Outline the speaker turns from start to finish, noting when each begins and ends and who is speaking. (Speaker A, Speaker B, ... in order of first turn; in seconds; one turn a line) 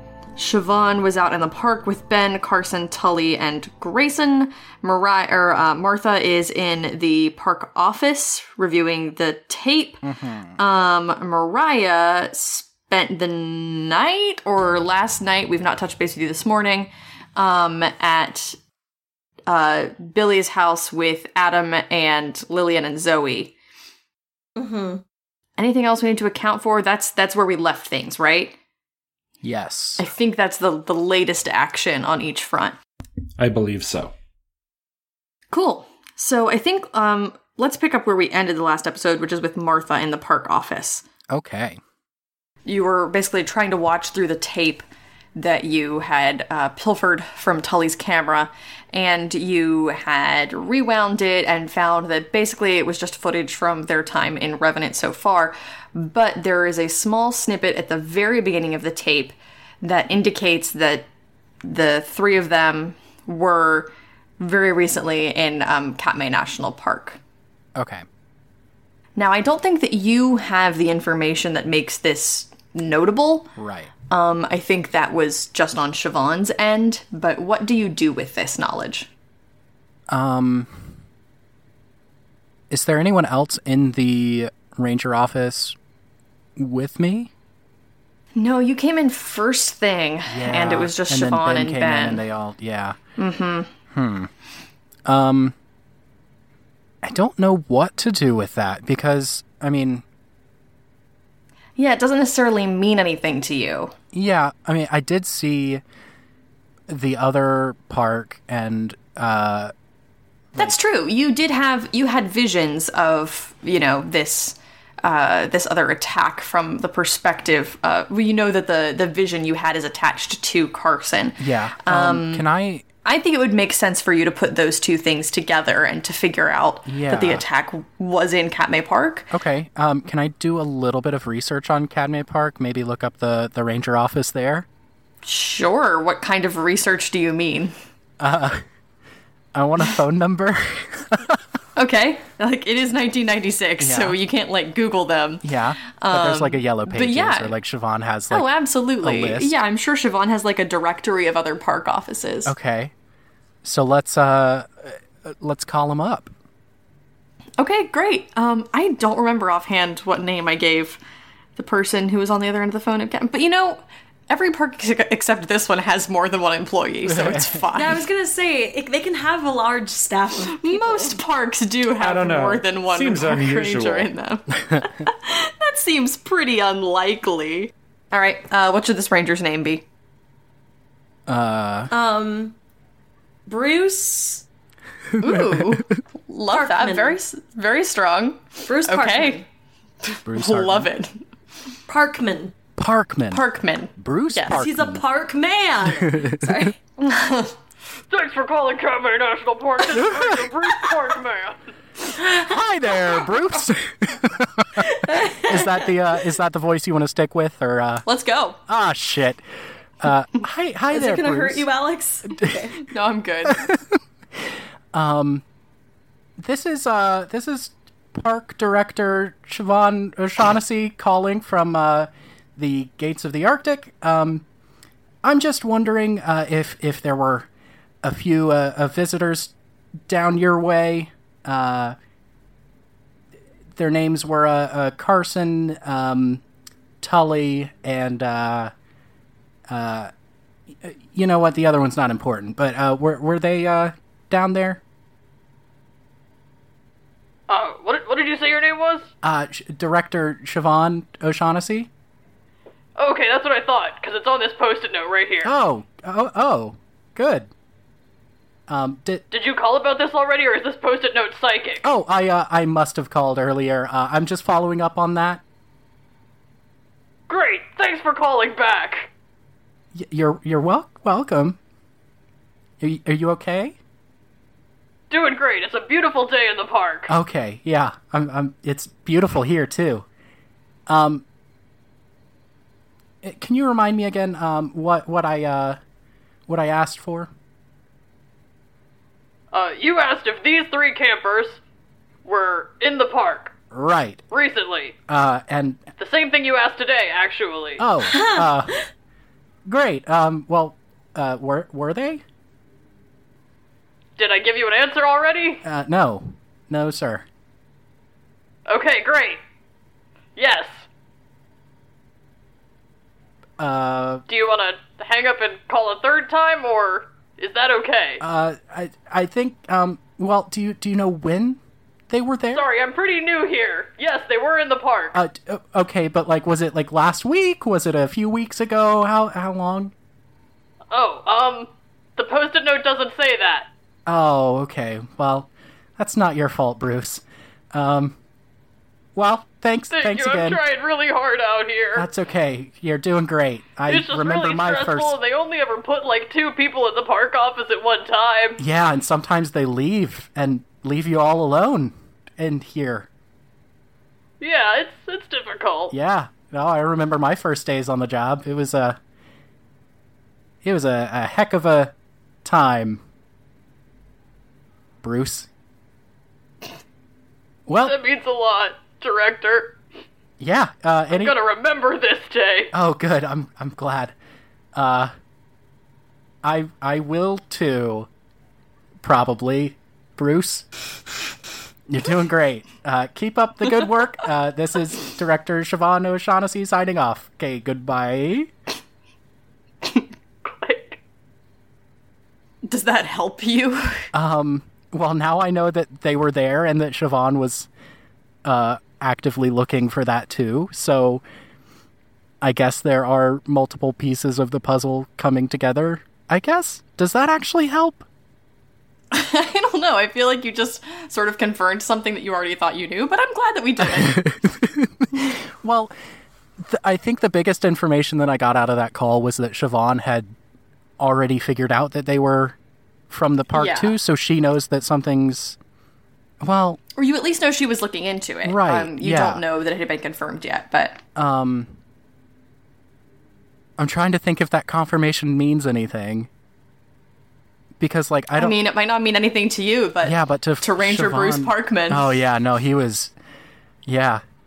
Speaker A: 0.4-10.0
Speaker B: 10.0-10.6
Speaker A: 10.6-18.6
Speaker A: 19.5-23.6
Speaker C: 24.6-25.0
Speaker A: 25.6-28.6
Speaker B: 29.4-30.0
Speaker A: 30.0-32.8
Speaker D: 33.4-34.1
Speaker A: 35.5-41.0
Speaker B: 41.3-41.8
Speaker A: 42.7-44.8
Speaker A: 45.4-61.1
Speaker A: 61.6-67.2
Speaker B: 67.8-68.0
Speaker A: 69.2-73.5
Speaker B: 73.6-73.9
Speaker A: 74.1-79.1
Speaker B: 80.1-80.9
Speaker B: 82.7-85.8
Speaker B: 86.6-87.3
Speaker A: 88.4-92.2
Speaker B: 90.3-93.0
Speaker A: 93.2-93.7
Speaker B: 93.9-94.3
Speaker B: 95.1-95.5
Speaker B: 97.0-100.0
Speaker A: 101.8-103.9
Speaker B: 104.1-105.8
Speaker B: 106.9-109.7
Speaker A: 110.6-122.5
Speaker B: 121.4-122.8
Speaker A: 123.0-129.3
Speaker B: 126.9-127.5
Speaker B: 129.3-134.7
Speaker A: 135.2-137.8
Speaker B: 138.2-138.6
Speaker B: 139.6-141.4
Speaker A: 141.8-147.6
Speaker B: 143.8-144.2
Speaker B: 145.4-148.5
Speaker A: 148.3-152.5
Speaker B: 149.0-149.5
Speaker B: 152.5-152.9
Speaker B: 153.6-156.3
Speaker A: 157.6-161.0
Speaker A: 161.6-168.0
Speaker B: 167.0-167.7
Speaker C: 167.7-171.2
Speaker A: 170.5-179.9
Speaker D: 172.0-174.1
Speaker B: 181.3-181.9
Speaker C: 181.9-182.6
Speaker C: 183.5-184.4
Speaker A: 185.2-189.4
Speaker B: 185.2-185.8
Speaker C: 186.5-187.2
Speaker C: 188.7-189.4
Speaker A: 190.2-191.2
Speaker B: 190.3-190.9
Speaker C: 191.9-192.5
Speaker B: 192.8-193.4
Speaker A: 193.3-194.6
Speaker B: 193.9-195.1
Speaker C: 194.5-196.8
Speaker B: 195.8-196.6
Speaker A: 197.0-197.5
Speaker E: 198.1-201.3
Speaker A: 198.2-200.3
Speaker B: 199.9-200.9
Speaker A: 201.1-201.5
Speaker B: 202.3-208.1
Speaker C: 204.8-205.9
Speaker A: 208.1-208.6
Speaker B: 208.7-209.4
Speaker B: 210.0-211.7
Speaker C: 210.9-212.8
Speaker B: 212.3-212.6
Speaker A: 212.9-213.7
Speaker B: 213.6-214.0
Speaker B: 214.9-215.4
Speaker B: 216.4-224.5
Speaker B: 225.2-227.5
Speaker B: 228.0-229.5
Speaker B: 230.1-232.0
Speaker B: 233.8-236.4
Speaker B: 237.0-238.7
Speaker B: 239.7-240.1
Speaker B: 240.8-244.8
Speaker E: 247.5-249.0
Speaker A: 247.6-249.0
Speaker B: 249.2-251.9
Speaker E: 253.0-255.4
Speaker A: 253.1-255.4
Speaker B: 255.4-257.5
Speaker B: 258.7-259.2
Speaker E: 259.3-261.8
Speaker B: 261.8-265.4
Speaker E: 267.3-269.1
Speaker B: 269.9-271.6
Speaker B: 272.8-273.8
Speaker E: 275.1-277.1
Speaker A: 275.8-276.8
Speaker B: 277.1-280.1
Speaker B: 280.9-281.2
Speaker B: 283.2-285.8
Speaker B: 286.5-287.3
Speaker E: 289.6-291.6
Speaker E: 292.3-293.5
Speaker A: 292.6-292.9
Speaker B: 293.7-294.2
Speaker E: 294.3-294.9
Speaker A: 294.6-294.9
Speaker B: 295.1-295.9
Speaker E: 296.0-297.8
Speaker A: 296.4-297.1
Speaker B: 297.8-298.8
Speaker C: 298.0-298.8
Speaker B: 299.7-302.2
Speaker E: 304.2-305.6
Speaker A: 304.2-305.3
Speaker B: 305.6-307.2
Speaker A: 308.7-309.3
Speaker E: 308.8-309.1
Speaker E: 310.4-310.6
Speaker B: 313.6-314.2
Speaker E: 314.3-316.9
Speaker A: 314.5-318.2
Speaker E: 317.4-318.1
Speaker B: 318.2-322.7
Speaker E: 322.6-325.1
Speaker A: 323.4-325.1
Speaker B: 325.1-329.9
Speaker A: 330.9-331.7
Speaker E: 331.1-331.5
Speaker E: 332.2-333.5
Speaker A: 332.2-333.6
Speaker B: 334.1-338.2
Speaker B: 339.1-340.6
Speaker E: 340.0-342.0
Speaker A: 340.2-342.0
Speaker B: 341.9-345.2
Speaker E: 343.9-348.6
Speaker A: 347.9-348.2
Speaker B: 348.6-353.1
Speaker E: 354.4-355.9
Speaker B: 355.9-359.0
Speaker B: 360.6-363.0
Speaker B: 365.0-365.5
Speaker B: 367.7-368.0
Speaker E: 367.9-369.6
Speaker A: 368.6-369.4
Speaker B: 370.4-371.4
Speaker E: 371.2-372.7
Speaker A: 371.7-372.6
Speaker B: 372.7-374.1
Speaker B: 374.8-375.1
Speaker B: 376.4-378.1
Speaker B: 379.0-380.7
Speaker B: 381.9-388.5
Speaker A: 389.9-391.0
Speaker A: 392.6-394.1
Speaker B: 394.1-397.7
Speaker B: 398.4-401.2
Speaker B: 402.4-408.1
Speaker A: 409.1-414.2
Speaker B: 414.0-415.9
Speaker B: 416.6-420.3
Speaker B: 421.0-422.6
Speaker B: 423.1-425.6
Speaker A: 423.5-423.9
Speaker B: 426.4-426.8
Speaker A: 427.0-431.0
Speaker B: 428.4-429.4
Speaker B: 431.1-431.8
Speaker B: 433.8-436.3
Speaker B: 437.8-438.6
Speaker A: 438.4-442.2
Speaker B: 440.0-443.1
Speaker B: 443.9-444.2